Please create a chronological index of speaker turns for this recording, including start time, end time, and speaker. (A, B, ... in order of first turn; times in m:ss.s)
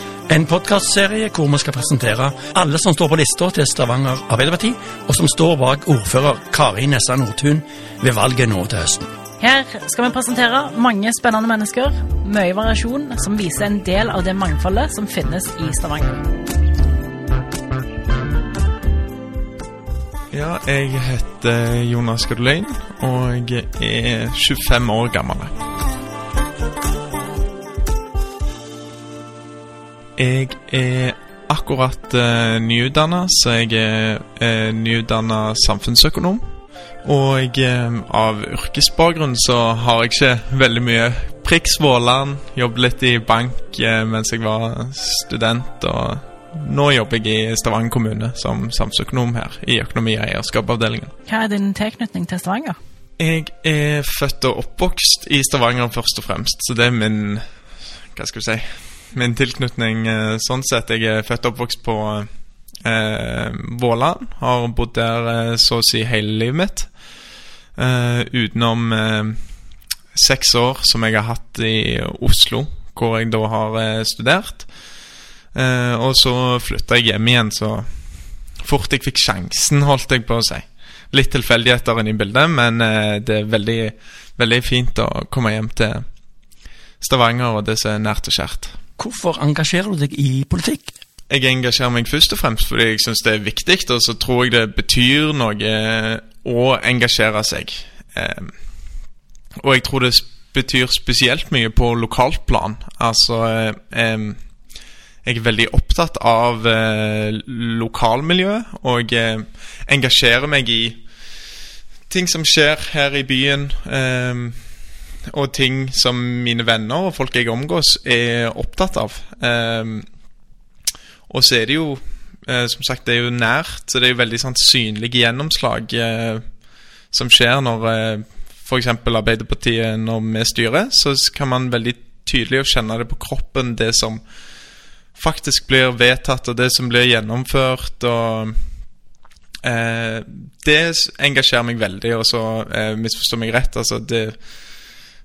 0:00.3-0:09.1 A
0:09.4-0:16.2 B
0:20.3-0:25.6 C
0:30.2-0:36.4 C
0:37.0-0:51.1 C
0:51.3-0:52.8 B
0:53.2-0:57.4 C
0:58.1-1:02.3 C
1:02.8-1:06.9 C
1:07.8-1:09.4 C
1:10.1-1:14.7 C
1:15.5-1:17.9 C
1:18.6-1:26.0 C
1:27.0-1:28.8 C
1:29.0-1:30.9 A
1:31.3-1:38.5 C
1:39.6-1:44.4 C
1:45.2-1:51.0 C
1:52.1-1:54.6 C
1:55.3-2:00.0 C
2:01.3-2:06.4 C
2:07.1-2:14.2 C
2:15.2-2:18.6 C
2:19.6-2:24.4 C